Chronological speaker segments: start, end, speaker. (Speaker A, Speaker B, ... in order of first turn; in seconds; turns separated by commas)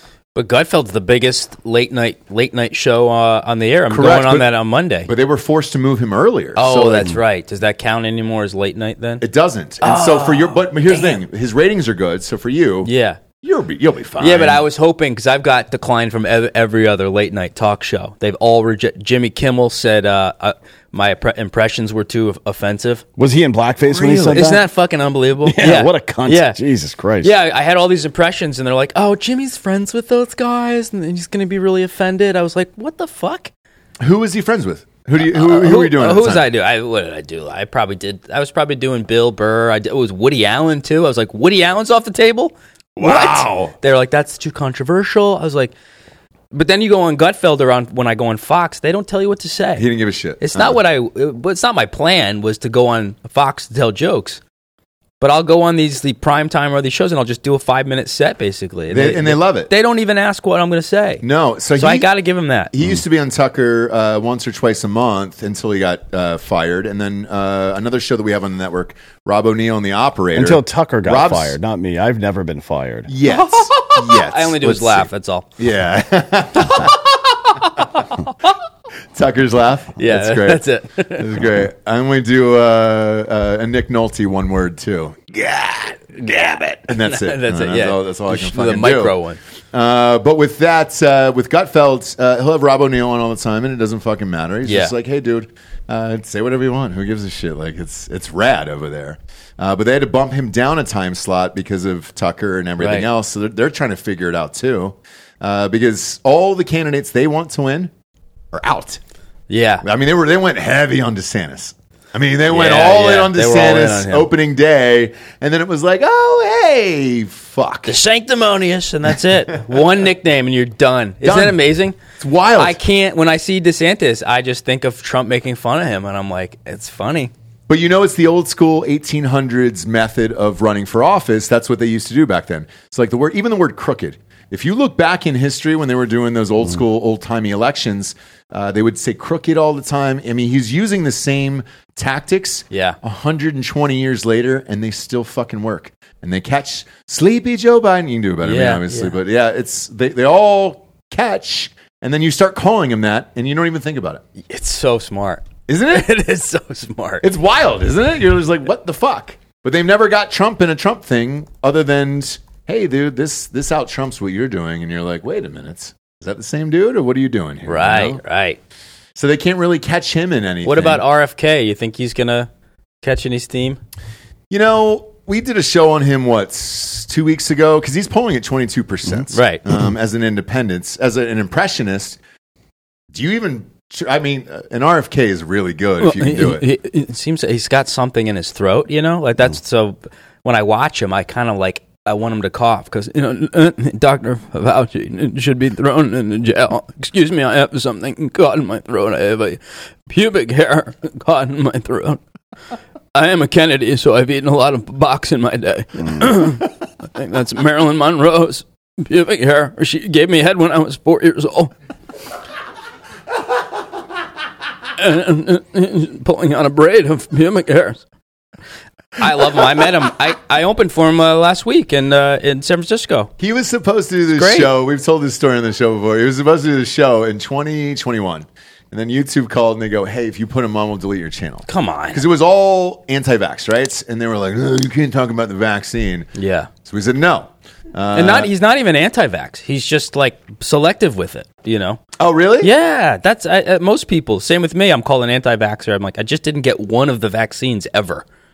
Speaker A: 0.3-5.1, Speaker B: 3.9-4.5, Speaker B: 5.1-7.2, Speaker A: 6.6-9.2, Speaker B: 9.2-12.9, Speaker A: 9.8-11.2, Speaker A: 12.8-13.2, Speaker B: 13.4-14.7, Speaker A: 14.2-23.0, Speaker C: 23.2-24.7, Speaker B: 23.9-24.4, Speaker A: 24.0-26.6, Speaker C: 25.4-27.3, Speaker A: 27.2-33.5, Speaker B: 34.0-36.5, Speaker A: 35.2-45.7, Speaker B: 43.0-43.7, Speaker A: 46.5-49.9, Speaker B: 49.8-50.8, Speaker A: 50.4-54.4, Speaker A: 55.2-61.2, Speaker B: 58.9-59.7, Speaker B: 61.2-62.1, Speaker A: 61.8-62.7, Speaker B: 62.7-71.6, Speaker C: 70.3-73.1, Speaker B: 73.1-77.0, Speaker A: 73.2-75.5, Speaker A: 76.7-76.9, Speaker A: 77.5-78.5, Speaker B: 79.1-80.6, Speaker A: 80.0-81.3, Speaker B: 81.2-86.2, Speaker A: 86.2-89.4, Speaker B: 86.8-89.2, Speaker B: 89.7-107.9, Speaker A: 94.7-94.9, Speaker A: 102.8-103.1, Speaker B: 108.5-109.0, Speaker A: 109.5-109.8, Speaker B: 109.8-118.0, Speaker A: 112.5-114.3, Speaker A: 117.8-122.0, Speaker B: 121.2-122.8, Speaker A: 122.6-127.3, Speaker B: 127.7-154.2, Speaker A: 142.7-143.0, Speaker A: 148.4-149.1, Speaker A: 154.5-157.2, Speaker B: 155.7-156.1, Speaker B: 157.2-168.2, Speaker A: 167.7-168.6, Speaker B: 169.2-171.0, Speaker A: 170.6-172.5, Speaker A: 173.0-173.8, Speaker B: 174.5-182.2, Speaker A: 179.3-179.6, Speaker B: 183.1-186.7, Speaker A: 186.0-202.2, Speaker A: 203.1-211.7, Speaker A: 215.0-218.0, Speaker A: 219.2-223.3, Speaker B: 223.4-236.3, Speaker A: 224.3-224.7, Speaker A: 231.7-232.2, Speaker A: 236.3-236.7, Speaker B: 236.8-238.5, Speaker A: 238.1-242.0, Speaker B: 242.2-242.7, Speaker A: 242.6-248.2